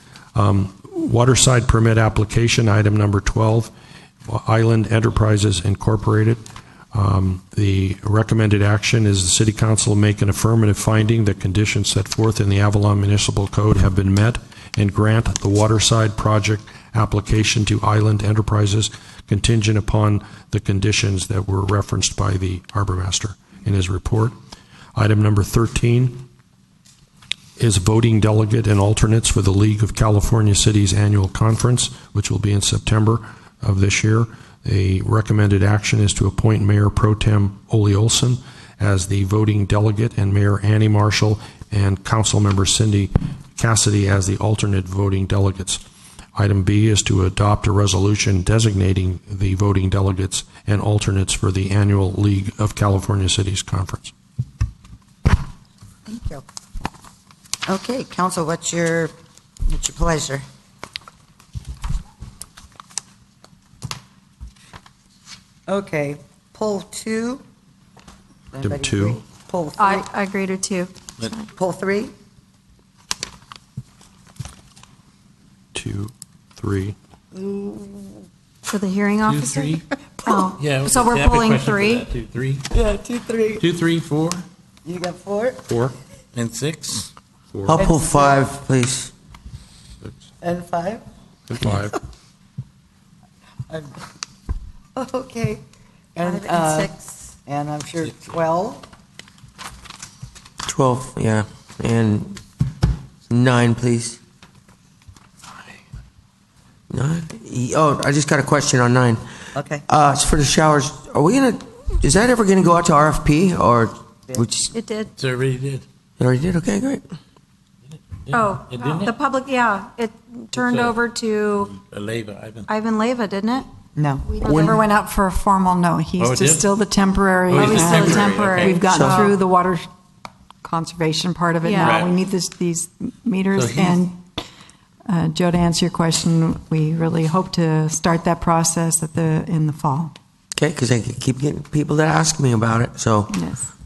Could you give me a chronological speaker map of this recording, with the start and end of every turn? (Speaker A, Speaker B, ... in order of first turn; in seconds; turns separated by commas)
Speaker A: 0.3-3.7, Speaker A: 4.3-24.4, Speaker A: 24.9-26.2, Speaker A: 27.6-45.8, Speaker A: 46.4-54.1, Speaker B: 56.1-56.4, Speaker B: 57.7-59.1, Speaker B: 59.7-60.5, Speaker B: 65.7-67.4, Speaker B: 68.5-70.1, Speaker A: 68.6-69.2, Speaker C: 69.8-71.5, Speaker B: 71.6-72.1, Speaker A: 75.7-77.0, Speaker B: 77.3-78.2, Speaker C: 78.7-79.7, Speaker D: 79.3-79.8, Speaker C: 80.2-82.0, Speaker D: 80.5-82.7, Speaker B: 82.7-83.7, Speaker D: 83.6-84.5, Speaker B: 84.8-85.6, Speaker D: 86.3-87.1, Speaker A: 87.5-87.8, Speaker E: 87.7-89.1, Speaker B: 87.7-88.5, Speaker B: 90.4-91.0, Speaker A: 91.5-92.0, Speaker B: 95.0-95.6, Speaker B: 96.2-98.8, Speaker C: 96.2-96.9, Speaker E: 100.7-102.4, Speaker E: 103.3-104.2, Speaker E: 106.9-109.2, Speaker B: 109.5-109.8, Speaker E: 109.9-114.8, Speaker C: 114.7-115.1, Speaker D: 115.2-115.8, Speaker E: 116.2-117.1, Speaker D: 118.3-119.2, Speaker C: 118.3-121.7, Speaker D: 120.5-122.7, Speaker C: 122.7-123.7, Speaker B: 124.0-124.7, Speaker C: 124.4-124.7, Speaker F: 124.5-129.9, Speaker D: 126.2-126.7, Speaker D: 127.5-129.1, Speaker E: 128.0-129.4, Speaker F: 130.6-134.2, Speaker C: 131.6-131.9, Speaker D: 131.8-132.2, Speaker D: 133.5-134.1, Speaker F: 135.1-140.1, Speaker E: 140.6-143.4, Speaker F: 143.3-143.7